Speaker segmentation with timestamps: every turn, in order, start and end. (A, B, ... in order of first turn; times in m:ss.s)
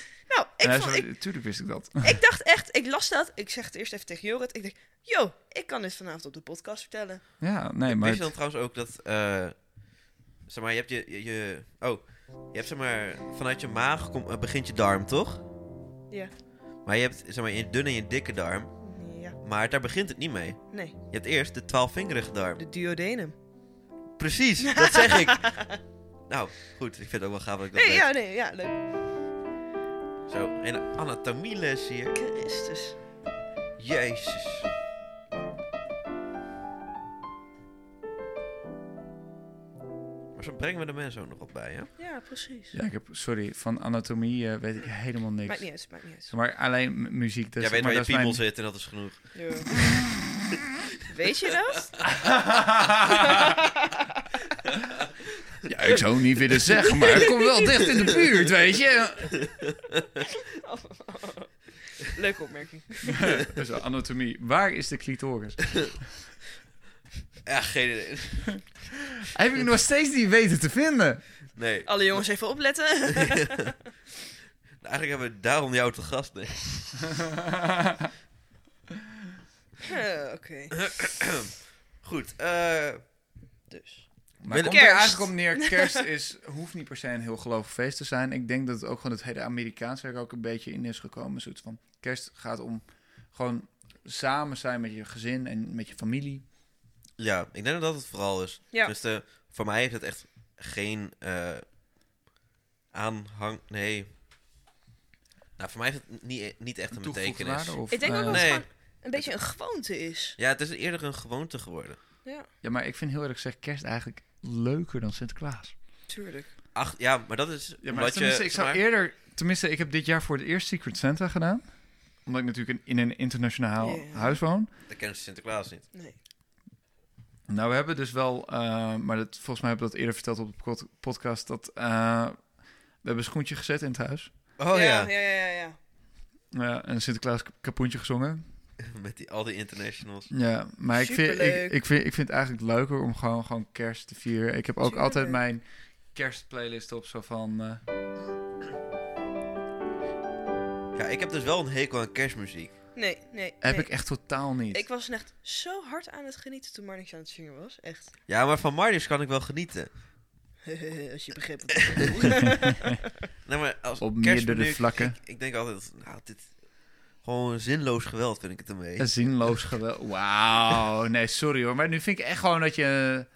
0:00.2-0:01.1 A
0:00.6-0:02.2 B
0:02.0-0:07.2 A
0:07.4-0:08.3 B
0:07.8-0:15.4 C
0:16.8-0:22.6 C
0:18.8-0:19.4 A
0:22.6-0:23.4 A
0:24.2-0:28.1 C
0:24.6-0:25.8 A
0:27.7-0:28.8 A
0:30.3-0:32.2 C
0:32.1-0:33.0 A
0:33.8-0:34.7 C
0:40.3-0:41.9 C
0:42.0-0:42.8 A
0:42.7-0:48.4 B
0:45.4-0:46.3 A
0:47.6-0:49.9 C
0:49.3-0:49.7 A
0:51.1-0:51.9 A
0:52.1-0:53.6 B
0:53.1-0:54.2 A
0:55.6-0:59.5 B
0:57.0-0:58.1 A
1:00.2-1:03.3 A
1:03.1-1:06.1 B
1:07.4-1:08.7 C
1:09.3-1:11.4 B
1:11.5-1:13.5 C
1:11.8-1:13.7 A
1:14.8-1:17.2 C
1:17.4-1:18.1 B
1:19.8-1:20.8 A
1:20.7-1:23.0 C
1:23.7-1:26.0 A
1:24.4-1:36.4 B
1:24.5-1:25.1 C
1:37.2-1:41.6 C
1:42.9-1:44.1 C
1:45.6-1:49.3 C
1:47.0-1:48.6 B
1:47.9-1:50.4 A
1:50.4-1:52.0 C
1:52.6-1:55.7 B
1:56.1-1:56.5 A
1:56.7-1:58.8 C
1:57.8-2:01.6 B
2:02.2-2:04.7 B
2:03.8-2:04.4 A
2:04.9-2:05.9 C
2:07.5-2:12.5 B
2:13.0-2:14.3 B
2:14.6-2:15.1 C
2:14.7-2:15.8 A
2:16.5-2:18.4 B
2:18.8-2:20.3 C
2:20.3-2:27.8 B
2:20.9-2:21.8 A
2:24.8-2:25.4 A
2:30.9-2:32.8 C
2:32.9-2:38.1 A
2:33.6-2:34.8 B
2:38.3-2:39.9 C
2:40.6-2:43.0 A
2:43.4-2:49.7 C
2:44.0-2:45.2 B
2:49.0-2:53.3 B